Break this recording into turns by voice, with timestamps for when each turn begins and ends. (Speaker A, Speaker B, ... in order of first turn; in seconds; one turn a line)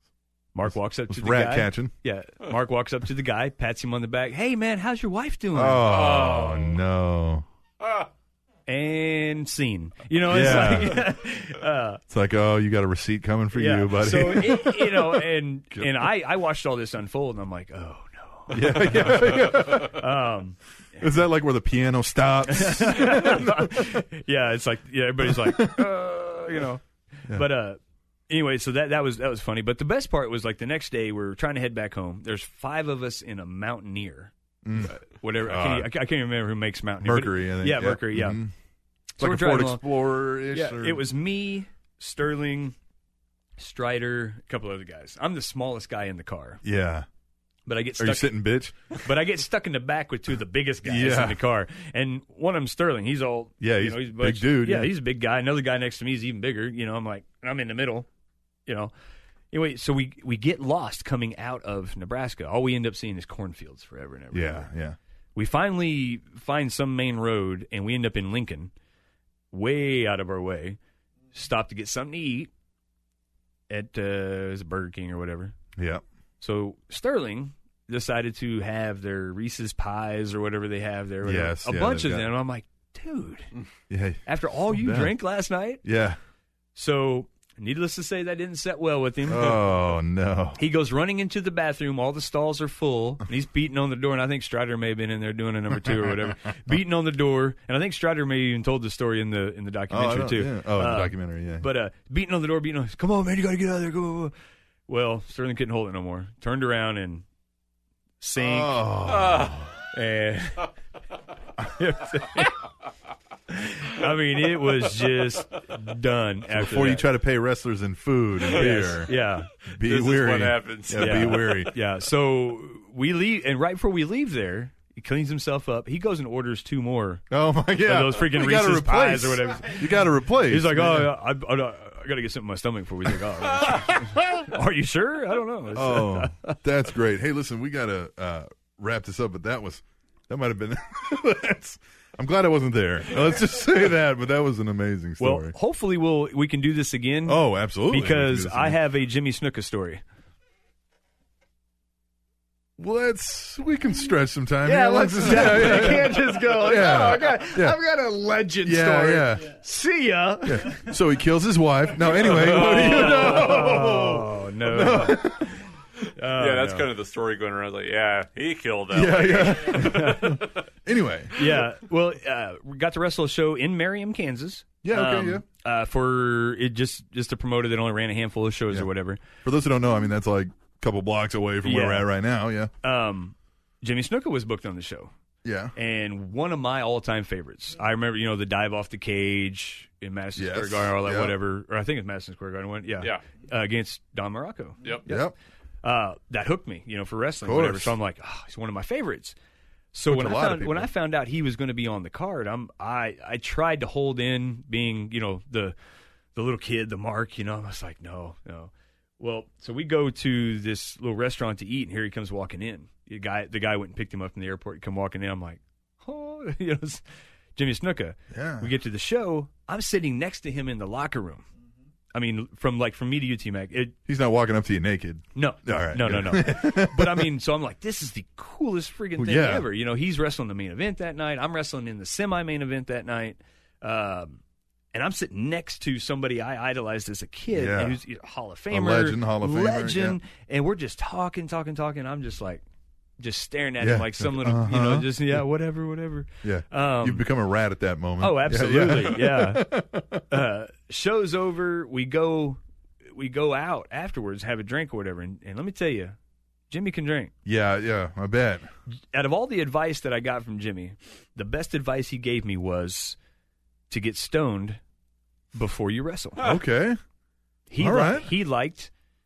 Speaker A: 0.5-5.9
Speaker B: 0.7-1.9
Speaker B: 5.5-7.5
Speaker C: 5.8-6.8
Speaker A: 8.7-12.0
Speaker B: 10.3-11.1
Speaker B: 12.1-16.1
Speaker A: 13.5-21.0
Speaker B: 18.5-20.1
Speaker B: 21.0-24.0
Speaker A: 22.5-38.4
Speaker B: 25.2-25.9
Speaker B: 34.6-35.9
Speaker B: 37.0-38.5
Speaker A: 39.2-39.9
Speaker B: 39.2-41.0
Speaker A: 40.5-42.8
Speaker A: 43.6-46.6
Speaker B: 46.6-47.1
Speaker A: 47.7-58.1
Speaker B: 48.0-48.8
Speaker B: 50.8-51.4
Speaker B: 53.6-54.9
Speaker A: 58.7-58.9
Speaker A: 59.5-64.7
Speaker B: 64.3-65.0
Speaker A: 65.3-68.7
Speaker A: 69.5-70.8
Speaker A: 71.3-72.5
Speaker A: 73.7-75.5
Speaker B: 75.8-76.0
Speaker A: 76.4-83.5
Speaker B: 81.2-82.3
Speaker B: 83.9-85.2
Speaker A: 84.3-85.8
Speaker B: 85.8-86.2
Speaker A: 86.8-89.7
Speaker B: 89.3-90.6
Speaker A: 90.6-104.3
Speaker B: 95.9-96.2
Speaker B: 99.9-101.7
Speaker A: 104.9-107.2
Speaker A: 108.2-108.9
Speaker B: 108.4-109.8
Speaker C: 109.1-109.6
Speaker A: 109.9-110.7
Speaker A: 111.8-112.6
Speaker A: 113.5-117.1
Speaker B: 116.5-119.1
Speaker A: 118.5-119.5
Speaker B: 119.7-121.7
Speaker C: 119.8-121.7
Speaker A: 121.0-127.2
Speaker B: 127.3-131.1
Speaker A: 127.8-136.6
Speaker B: 133.7-134.4
Speaker B: 135.8-145.6
Speaker A: 145.2-150.0
Speaker B: 147.3-148.8
Speaker B: 152.8-157.8
Speaker D: 154.7-160.9
Speaker A: 155.2-156.2
Speaker B: 158.6-159.6
Speaker B: 160.4-165.5
Speaker C: 162.3-163.4
Speaker A: 162.3-166.9
Speaker C: 166.3-170.6
Speaker B: 168.9-171.5
Speaker A: 169.7-170.3
Speaker A: 171.4-179.2
Speaker B: 174.8-175.4
Speaker B: 178.7-182.7
Speaker A: 181.7-182.1
Speaker A: 182.8-185.1
Speaker B: 185.4-185.7
Speaker A: 185.8-199.4
Speaker B: 190.4-191.4
Speaker B: 195.1-195.3
Speaker B: 197.4-198.0
Speaker A: 199.9-205.8
Speaker B: 200.1-200.9
Speaker A: 206.3-217.0
Speaker A: 217.6-221.5
Speaker B: 218.3-218.7
Speaker A: 222.1-224.0
Speaker B: 224.1-227.3
Speaker A: 225.3-234.4
Speaker B: 229.2-229.7
Speaker A: 234.9-242.6
Speaker B: 237.5-238.0
Speaker B: 238.7-240.2
Speaker A: 243.2-247.3
Speaker B: 243.8-245.4
Speaker B: 246.4-250.2
Speaker A: 248.2-256.2
Speaker A: 256.7-257.3
Speaker B: 257.4-258.7
Speaker A: 259.1-263.2
Speaker A: 263.9-264.8
Speaker A: 265.5-266.5
Speaker B: 266.4-267.0
Speaker A: 267.7-268.9
Speaker B: 267.8-268.3